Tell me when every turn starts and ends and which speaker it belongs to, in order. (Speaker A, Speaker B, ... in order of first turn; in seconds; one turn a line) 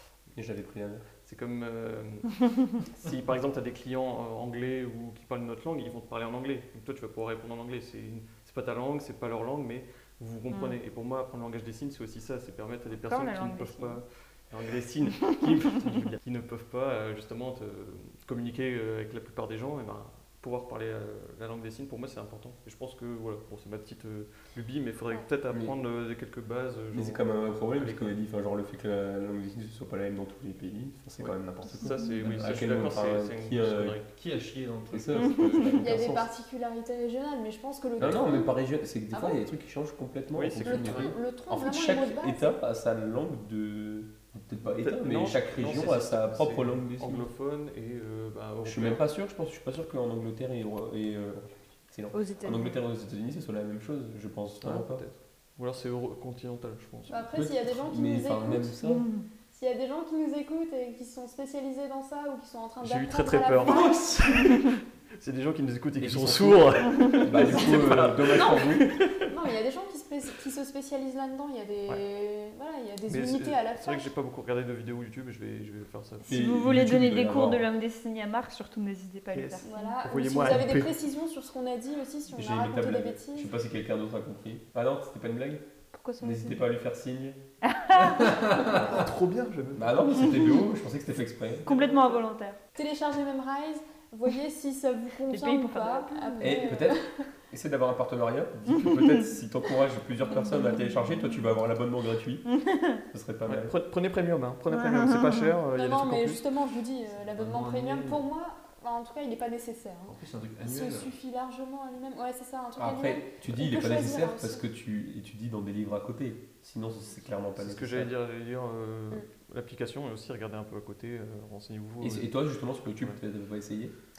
Speaker A: 0.3-1.1
Speaker B: 1.2-28.1
Speaker C: 10.5-10.8
Speaker C: 13.0-14.0
Speaker A: 26.9-34.0
Speaker B: 31.2-34.1
Speaker D: 32.3-32.7
Speaker D: 34.1-35.6
Speaker A: 34.9-36.3
Speaker E: 35.8-38.6
Speaker A: 38.0-47.3
Speaker E: 39.1-39.4
Speaker B: 40.3-41.1
Speaker E: 40.6-42.6
Speaker B: 44.7-49.0
Speaker A: 48.6-55.0
Speaker C: 52.1-52.8
Speaker B: 54.6-57.2
Speaker E: 57.1-58.7
Speaker A: 57.3-59.1
Speaker C: 58.8-59.2
Speaker E: 59.5-64.0
Speaker B: 62.8-69.3
Speaker A: 63.7-64.3
Speaker A: 66.0-68.9
Speaker E: 68.3-74.1
Speaker B: 73.1-76.4
Speaker C: 76.2-80.0
Speaker A: 76.3-77.7
Speaker B: 79.3-80.9
Speaker E: 79.6-83.5
Speaker A: 82.3-85.7
Speaker C: 85.9-86.6
Speaker A: 86.2-87.4
Speaker C: 87.7-88.5
Speaker D: 88.3-89.0
Speaker B: 88.8-90.3
Speaker A: 89.8-91.7
Speaker C: 90.3-90.5
Speaker B: 91.6-92.3
Speaker C: 91.7-92.6
Speaker E: 92.8-97.2
Speaker C: 95.3-96.8
Speaker A: 96.4-102.5
Speaker C: 100.3-101.2
Speaker C: 102.5-103.0
Speaker A: 103.1-103.7
Speaker B: 103.5-106.5
Speaker C: 104.7-105.5
Speaker E: 105.7-114.7
Speaker D: 107.1-108.2
Speaker D: 110.1-111.1
Speaker A: 112.8-118.1
Speaker B: 117.5-122.3
Speaker A: 122.0-124.0